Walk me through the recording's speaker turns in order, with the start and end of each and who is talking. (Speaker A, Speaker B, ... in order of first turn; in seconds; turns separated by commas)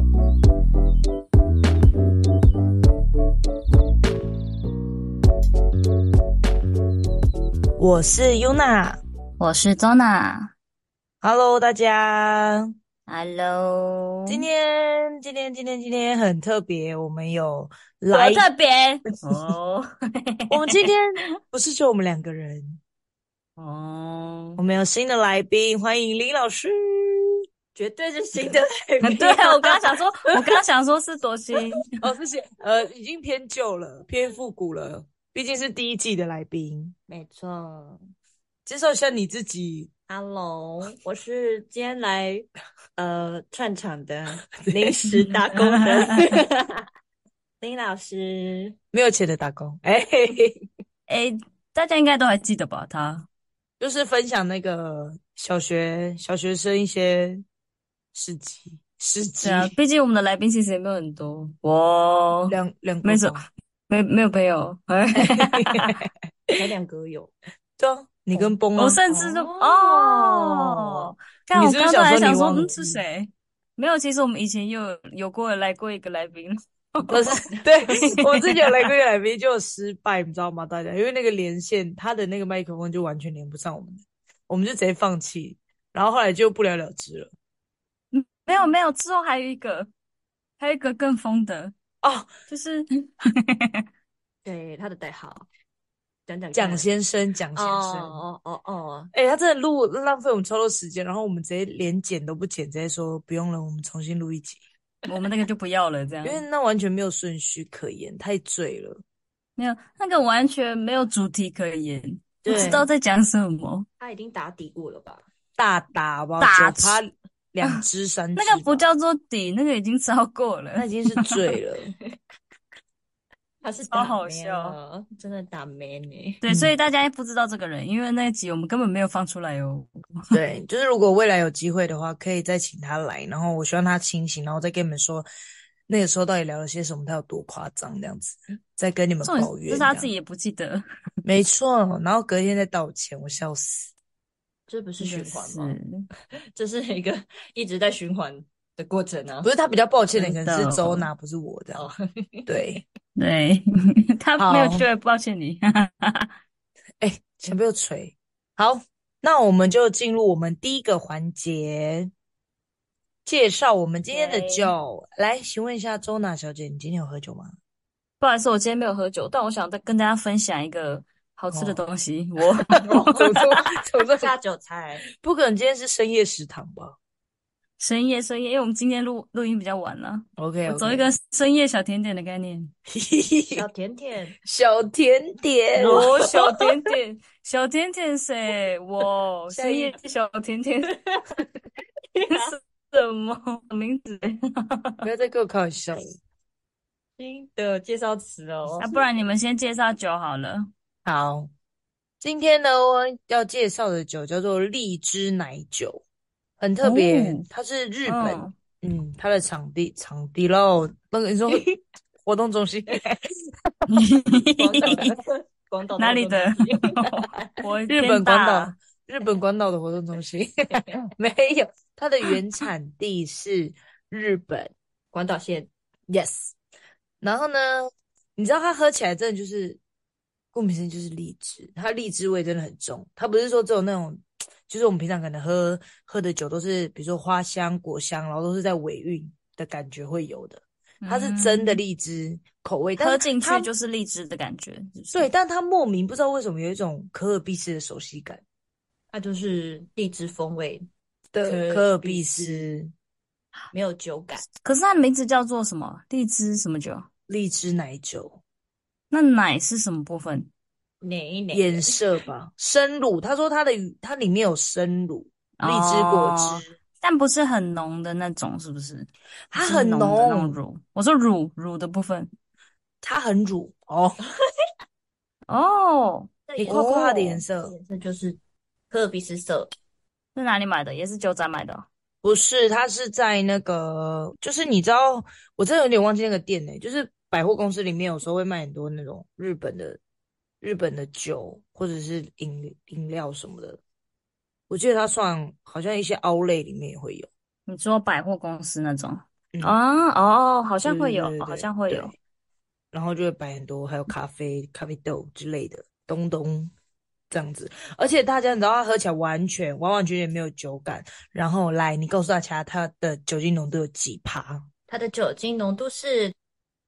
Speaker A: 7.8-9.0, Speaker B: 9.4-10.5, Speaker A: 11.2-12.7, Speaker B: 13.1-14.4, Speaker A: 14.3-18.5, Speaker B: 18.1-20.7, Speaker A: 20.5-22.8, Speaker B: 23.6-24.6, Speaker A: 24.6-27.4, Speaker C: 27.7-29.7, Speaker B: 29.0-31.9, Speaker A: 32.0-36.9, Speaker C: 37.1-38.0, Speaker A: 38.6-39.9, Speaker C: 40.1-46.8, Speaker A: 44.5-45.3, Speaker B: 45.5-46.1, Speaker C: 47.6-48.8, Speaker A: 48.9-50.6, Speaker B: 51.1-53.3, Speaker A: 53.8-57.4, Speaker A: 58.1-59.7, Speaker B: 59.4-66.0, Speaker A: 62.5-63.5, Speaker A: 65.2-66.7, Speaker C: 66.5-67.3, Speaker A: 67.8-69.0, Speaker B: 68.8-77.3, Speaker C: 69.1-71.1, Speaker A: 71.5-73.0, Speaker A: 77.1-87.3, Speaker B: 77.8-78.8, Speaker B: 88.1-89.9, Speaker B: 90.6-91.7, Speaker A: 92.0-92.3, Speaker B: 92.5-93.8, Speaker C: 94.4-95.5, Speaker C: 96.3-96.9, Speaker A: 96.5-98.2, Speaker C: 97.5-99.1, Speaker A: 99.1-104.6, Speaker B: 105.1-106.4, Speaker A: 106.2-109.0, Speaker B: 109.6-113.8, Speaker C: 112.4-112.9, Speaker A: 112.5-112.9, Speaker C: 114.0-115.2, Speaker A: 115.6-118.8, Speaker B: 116.4-117.0, Speaker B: 118.3-121.4, Speaker A: 120.7-121.9, Speaker C: 123.6-126.4, Speaker B: 123.9-124.8, Speaker B: 126.4-130.4, Speaker A: 126.5-126.7, Speaker A: 130.3-135.3, Speaker A: 135.9-140.1, Speaker B: 139.2-140.8, Speaker A: 141.2-143.9, Speaker C: 144.7-145.8, Speaker B: 145.0-146.1, Speaker C: 146.3-149.5, Speaker A: 149.4-151.8, Speaker B: 150.2-151.1, Speaker C: 151.7-152.5, Speaker A: 152.5-152.8, Speaker B: 153.2-156.3, Speaker A: 154.4-154.9, Speaker A: 157.0-162.1, Speaker A: 163.2-167.6, Speaker B: 164.1-164.7, Speaker B: 168.2-173.4, Speaker A: 171.5-171.8, Speaker A: 172.8-174.3, Speaker C: 174.1-175.0, Speaker A: 175.2-177.0, Speaker B: 177.8-182.7, Speaker A: 180.4-181.1, Speaker A: 182.9-183.7, Speaker C: 183.5-184.4, Speaker A: 184.4-186.7, Speaker C: 185.7-186.3, Speaker B: 185.8-191.0, Speaker A: 189.5-189.9, Speaker C: 192.1-192.5, Speaker B: 192.3-195.1, Speaker A: 195.0-196.2, Speaker C: 197.2-199.1, Speaker B: 198.8-200.7, Speaker A: 201.0-201.5, Speaker A: 202.2-206.0, Speaker A: 206.6-211.7, Speaker B: 206.8-207.4, Speaker B: 208.1-208.5, Speaker A: 212.2-213.8, Speaker B: 213.9-215.2, Speaker C: 214.5-217.6, Speaker B: 216.0-218.8, Speaker A: 217.9-224.7, Speaker C: 225.1-225.7, Speaker A: 226.1-226.5, Speaker A: 227.2-229.8, Speaker A: 230.5-243.7, Speaker B: 241.0-241.8, Speaker B: 243.0-245.3, Speaker A: 245.1-248.4, Speaker C: 249.1-250.9, Speaker A: 251.3-252.9, Speaker C: 251.4-252.7, Speaker C: 253.7-254.4, Speaker B: 254.6-257.1, Speaker A: 257.3-258.4, Speaker B: 259.1-260.5, Speaker C: 261.0-262.0, Speaker A: 261.5-266.6, Speaker B: 265.6-272.3, Speaker A: 269.5-270.6, Speaker A: 273.0-274.2, Speaker B: 275.5-277.4, Speaker C: 276.5-276.9, Speaker A: 276.5-277.7, Speaker C: 277.6-278.4, Speaker C: 278.9-279.7, Speaker B: 280.3-281.9, Speaker A: 282.2-290.0, Speaker A: 290.6-293.8, Speaker A: 294.7-297.3, Speaker B: 297.7-302.1, Speaker A: 300.8-302.1, Speaker A: 302.9-306.7, Speaker A: 307.3-314.7, Speaker C: 314.9-316.3